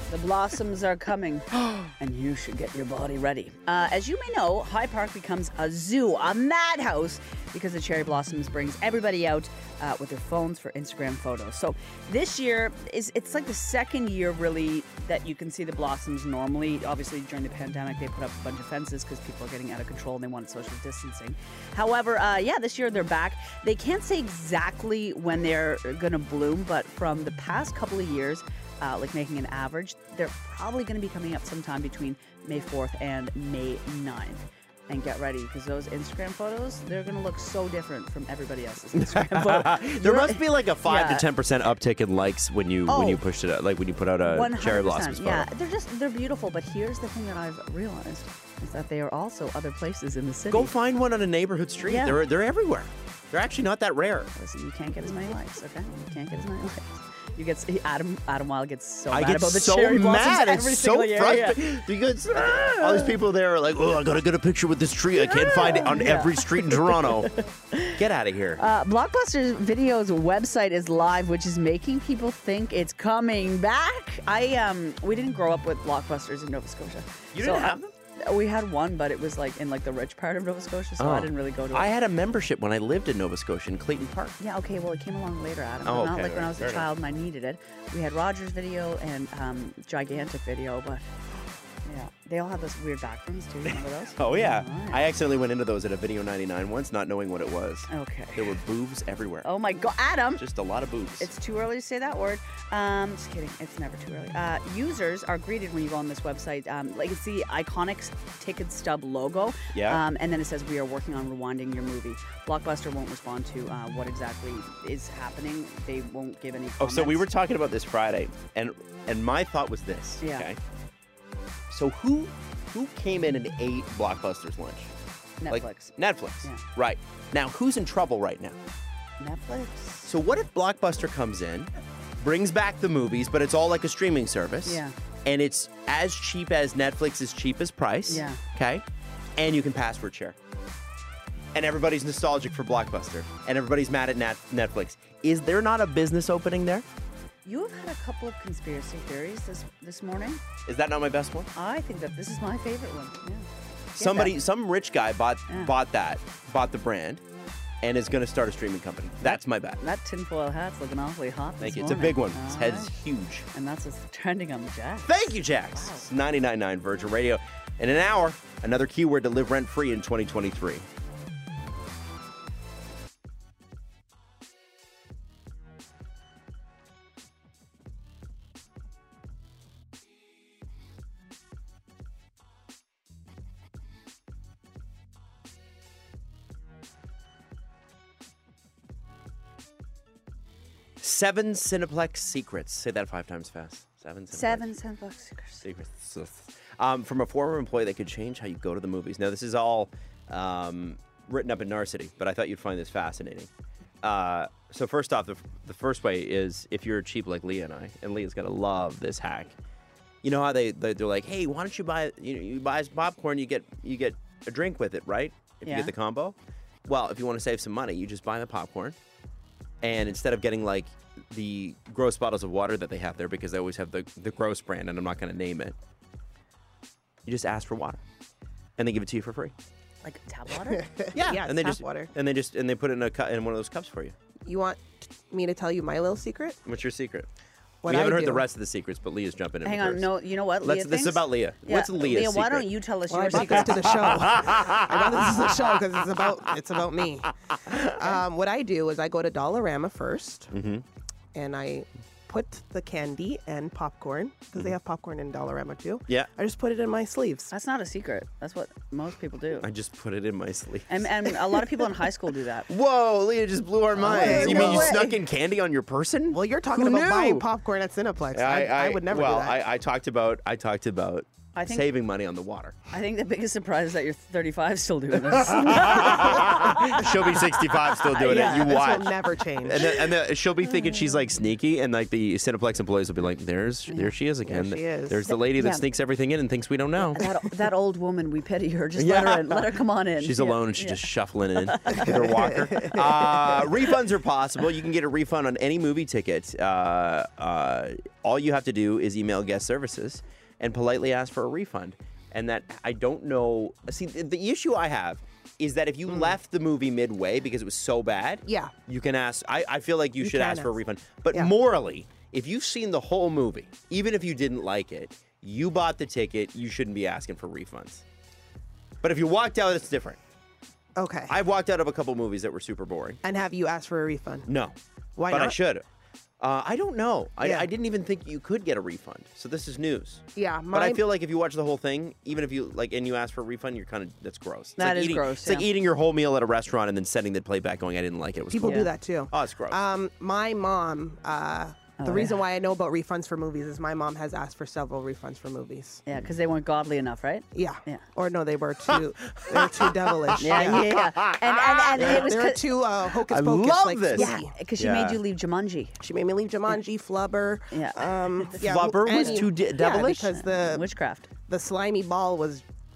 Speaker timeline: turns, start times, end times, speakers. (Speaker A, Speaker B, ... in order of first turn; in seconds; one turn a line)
Speaker A: 0.1-41.3
Speaker B: 38.9-45.5
Speaker A: 42.9-43.2
Speaker A: 44.2-50.7
Speaker B: 50.5-54.3
Speaker A: 51.8-52.2
Speaker A: 54.3-63.2
Speaker B: 59.1-67.3
Speaker A: 65.2-68.0
Speaker B: 67.9-68.6
Speaker A: 68.6-81.9
Speaker B: 77.3-77.9
Speaker B: 81.0-84.3
Speaker A: 84.4-91.1
Speaker B: 85.8-86.9
Speaker A: 91.8-95.0
Speaker B: 93.7-99.5
Speaker A: 97.9-98.5
Speaker A: 99.4-100.4
Speaker B: 100.4-101.3
Speaker A: 101.2-117.3
Speaker B: 109.7-110.0
Speaker B: 116.8-120.6
Speaker A: 120.2-120.5
Speaker B: 121.7-124.9
Speaker A: 125.4-126.6
Speaker B: 125.5-128.6
Speaker A: 129.2-130.1
Speaker B: 130.0-138.8
Speaker A: 134.6-134.9
Speaker A: 138.1-138.4
Speaker B: 139.4-140.4
Speaker B: 141.5-146.8
Speaker A: 147.4-150.4
Speaker B: 150.6-151.5
Speaker A: 151.5-154.3
Speaker B: 153.9-157.2
Speaker B: 157.8-159.8
Speaker A: 159.2-162.9
Speaker B: 161.6-163.5
Speaker A: 163.5-165.2
Speaker B: 165.0-170.9
Speaker A: 165.7-166.0
Speaker B: 191.0-194.7
Speaker A: 194.3-195.6
Speaker B: 195.6-203.5
Speaker B: 204.0-209.6
Speaker B: 210.2-219.0
Speaker A: 215.7-215.9
Speaker B: 219.8-225.8
Speaker B: 227.2-228.0
Speaker B: 228.8-229.5
Speaker A: 230.0-230.9
Speaker C: 230.8-232.1
Speaker B: 231.1-234.2
Speaker C: 234.4-236.6
Speaker B: 236.7-237.3
Speaker C: 237.8-238.4
Speaker B: 237.8-242.7
Speaker A: 239.6-244.0
Speaker C: 243.1-250.5
Speaker B: 243.3-246.2
Speaker B: 247.6-247.9
Speaker B: 250.5-250.8
Speaker C: 251.3-257.5
Speaker A: 257.5-259.7
Speaker B: 259.6-261.6
Speaker A: 260.9-262.7
Speaker B: 262.7-267.5
Speaker C: 264.0-265.1
Speaker A: 264.1-265.2
Speaker C: 266.3-269.6
Speaker B: 268.3-272.8
Speaker A: 271.5-271.9
Speaker A: 272.9-277.1
Speaker B: 275.3-287.4
Speaker A: 277.9-279.0
Speaker C: 278.1-279.9
Speaker A: 283.9-284.1
Speaker C: 284.4-285.3
Speaker A: 285.5-285.8
Speaker A: 287.0-292.2
Speaker B: 288.9-318.0
Speaker C: 292.0-293.2
Speaker C: 306.1-306.3
Speaker C: 308.4-308.7
Speaker C: 310.2-310.7
Speaker B: 319.0-320.2
Speaker C: 320.9-321.4
Speaker B: 321.3-323.2
Speaker C: 323.2-324.5
Speaker B: 324.4-324.8
Speaker C: 325.2-325.6
Speaker B: 325.3-325.8
Speaker B: 326.4-339.8
Speaker C: 327.4-327.7
Speaker C: 330.4-331.0
Speaker A: 334.8-335.7
Speaker C: 338.5-346.0
Speaker A: 338.6-338.9
Speaker A: 342.0-342.4
Speaker A: 346.1-348.0
Speaker C: 347.5-351.0
Speaker B: 348.9-352.3
Speaker A: 350.4-352.7
Speaker C: 351.9-354.5
Speaker B: 353.2-355.2
Speaker A: 354.1-355.9
Speaker C: 356.0-360.9
Speaker A: 357.7-358.6
Speaker B: 358.6-360.4
Speaker A: 359.1-359.4
Speaker A: 360.3-361.3
Speaker C: 361.5-362.6